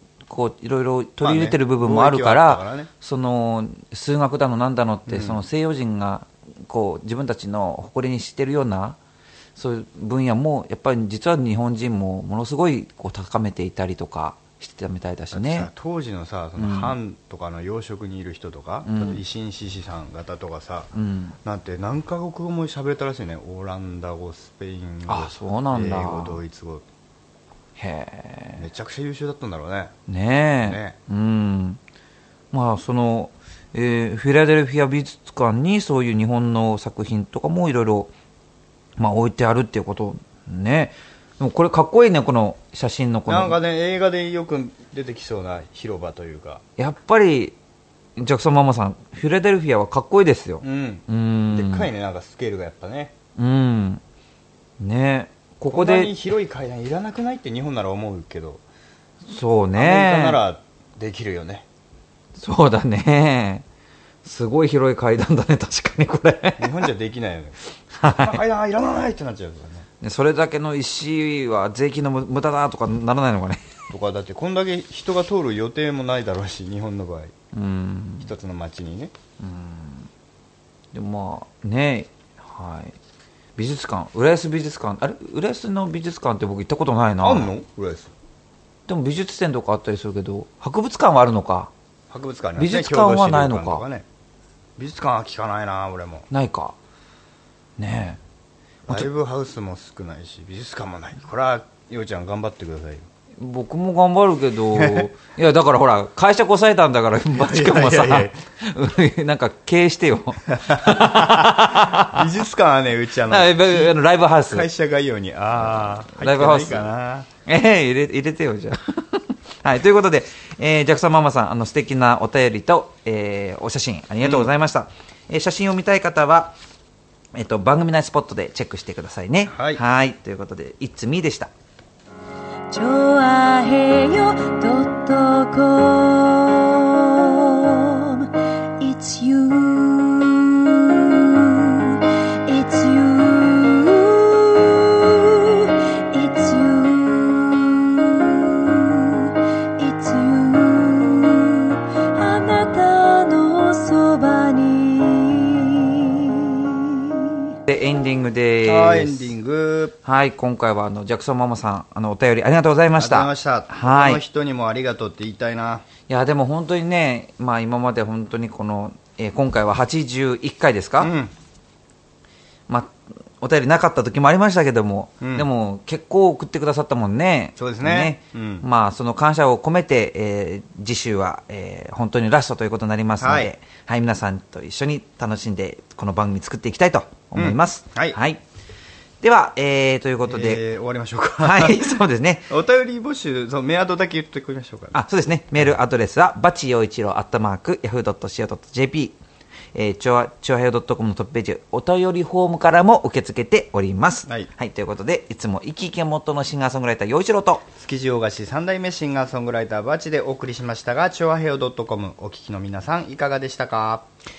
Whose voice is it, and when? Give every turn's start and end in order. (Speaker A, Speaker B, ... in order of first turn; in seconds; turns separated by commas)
Speaker A: 0.3-9.0, Speaker B: 1.2-2.9, Speaker B: 5.1-5.4, Speaker A: 9.6-15.7, Speaker B: 15.3-20.9, Speaker A: 16.6-17.0, Speaker A: 18.8-19.2, Speaker A: 20.9-21.4, Speaker B: 21.4-26.8, Speaker A: 25.1-26.4, Speaker A: 27.8-28.6, Speaker B: 28.6-29.9, Speaker A: 30.1-31.8, Speaker B: 30.6-30.9, Speaker A: 32.5-38.1, Speaker A: 39.0-43.6, Speaker B: 43.3-46.6, Speaker A: 46.8-47.5, Speaker A: 48.2-51.9, Speaker B: 50.6-53.1, Speaker A: 53.4-54.0, Speaker A: 54.8-56.1, Speaker B: 55.7-58.6, Speaker A: 59.3-60.4, Speaker B: 59.8-61.6, Speaker A: 62.4-63.6, Speaker A: 64.2-66.9, Speaker B: 66.6-69.9, Speaker A: 67.9-68.4, Speaker A: 70.0-73.8, Speaker B: 73.9-77.3, Speaker A: 77.5-78.3, Speaker B: 78.2-79.1, Speaker A: 79.4-80.1, Speaker A: 80.9-83.0, Speaker A: 83.6-87.5, Speaker B: 87.2-88.1, Speaker A: 88.9-91.7, Speaker B: 92.1-94.0, Speaker A: 92.6-93.8, Speaker B: 94.8-96.3, Speaker A: 96.3-96.8, Speaker A: 97.8-98.2, Speaker B: 98.9-103.1, Speaker A: 103.4-112.3, Speaker B: 104.7-105.1, Speaker B: 107.3-108.4, Speaker B: 110.5-117.3, Speaker A: 113.3-114.7, Speaker A: 115.6-116.9, Speaker A: 117.5-126.5, Speaker B: 124.2-124.5, Speaker A: 127.3-131.5, Speaker B: 129.5-129.8, Speaker C: 132.7-138.3, Speaker C: 138.8-157.2, Speaker A: 157.7-159.3, Speaker B: 158.6-159.9, Speaker A: 160.0-164.2, Speaker B: 163.0-165.9, Speaker A: 166.1-171.1, Speaker B: 171.0-171.3, Speaker A: 172.7-188.4, Speaker B: 175.2-175.5, Speaker B: 177.6-178.7, Speaker B: 183.2-183.5, Speaker B: 187.3-188.2, Speaker A: 189.2-190.6, Speaker B: 190.3-192.0, Speaker A: 191.4-192.5, Speaker B: 192.5-195.0, Speaker A: 194.9-199.2, Speaker A: 199.7-207.7, Speaker B: 207.8-214.1